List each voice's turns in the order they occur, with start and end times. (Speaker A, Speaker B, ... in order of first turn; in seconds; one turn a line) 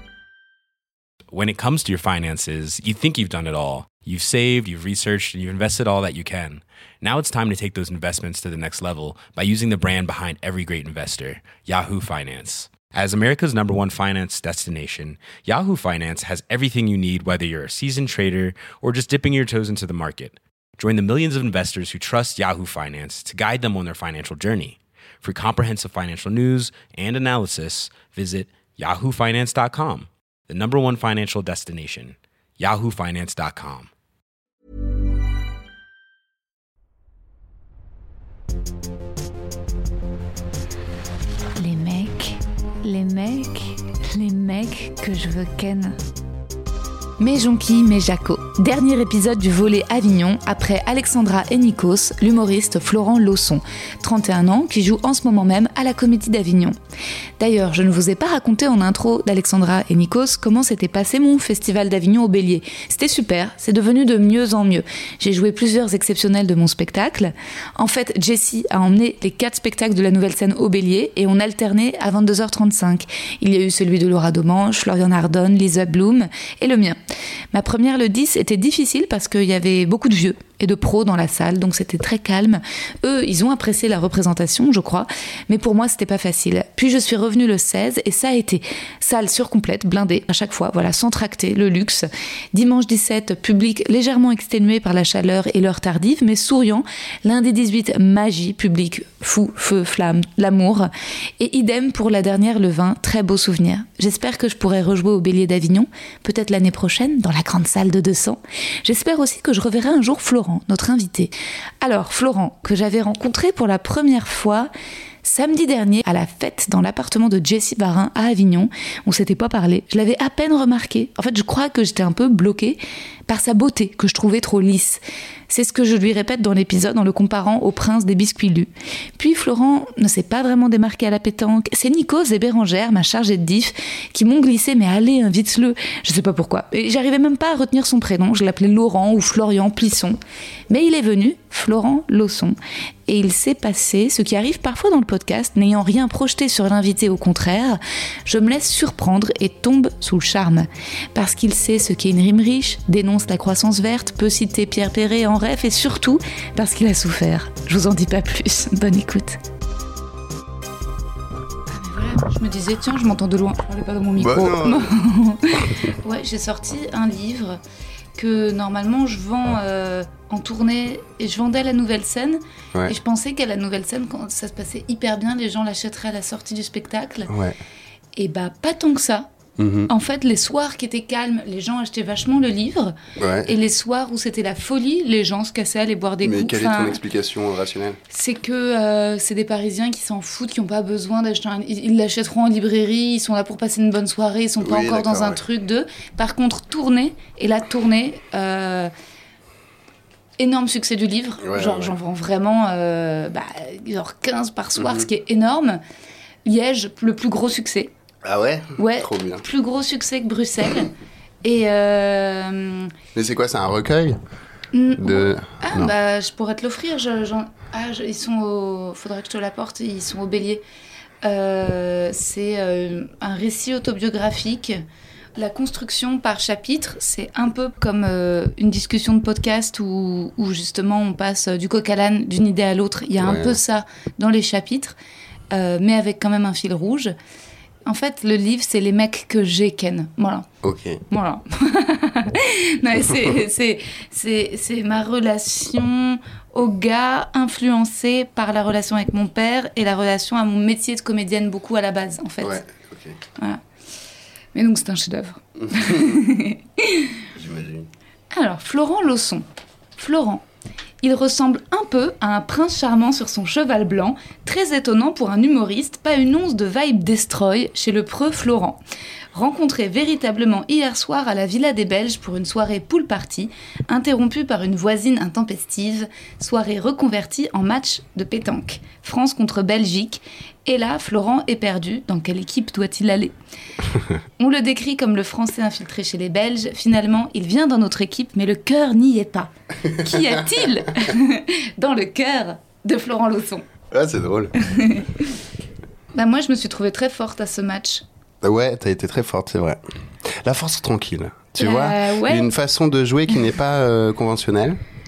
Speaker A: 1.3-33.9
Speaker B: 41.6-46.0
Speaker B: 47.2-56.7
Speaker B: 57.4-77.0
Speaker B: 77.5-114.7
Speaker B: 115.2-140.2
Speaker B: 140.7-159.4
Speaker B: 161.7-167.6
Speaker C: 164.2-164.9
Speaker C: 165.5-165.9
Speaker B: 168.2-177.3
Speaker C: 177.3-177.6
Speaker B: 178.2-179.3
Speaker C: 179.6-179.9
Speaker B: 179.9-187.0
Speaker C: 183.2-183.5
Speaker C: 186.2-188.0
Speaker B: 188.1-198.9
Speaker C: 194.6-195.4
Speaker B: 200.4-205.8
Speaker C: 201.4-201.9
Speaker C: 204.8-205.1
Speaker B: 206.4-207.9
Speaker C: 208.2-209.4
Speaker B: 208.8-210.9
Speaker B: 211.4-212.9
Speaker C: 213.1-214.2
Speaker B: 214.7-220.6
Speaker C: 215.0-215.9
Speaker B: 221.2-224.8
Speaker B: 225.3-235.0
Speaker C: 233.2-233.6
Speaker B: 235.5-237.1
Speaker B: 237.8-240.5
Speaker C: 240.6-241.0
Speaker B: 241.1-252.6
Speaker C: 243.1-243.3
Speaker C: 252.4-253.2
Speaker B: 253.3-253.6
Speaker B: 254.5-257.2
Speaker C: 255.6-256.2
Speaker C: 257.4-257.9
Speaker B: 258.3-259.4
Speaker B: 260.0-260.4
Speaker B: 261.0-268.8
Speaker B: 269.3-283.3
Speaker B: 284.4-293.7
Speaker C: 289.8-291.1
Speaker C: 293.9-294.6
Speaker B: 294.6-295.3
Speaker B: 296.1-298.0
Speaker C: 298.4-304.8
Speaker B: 301.6-302.5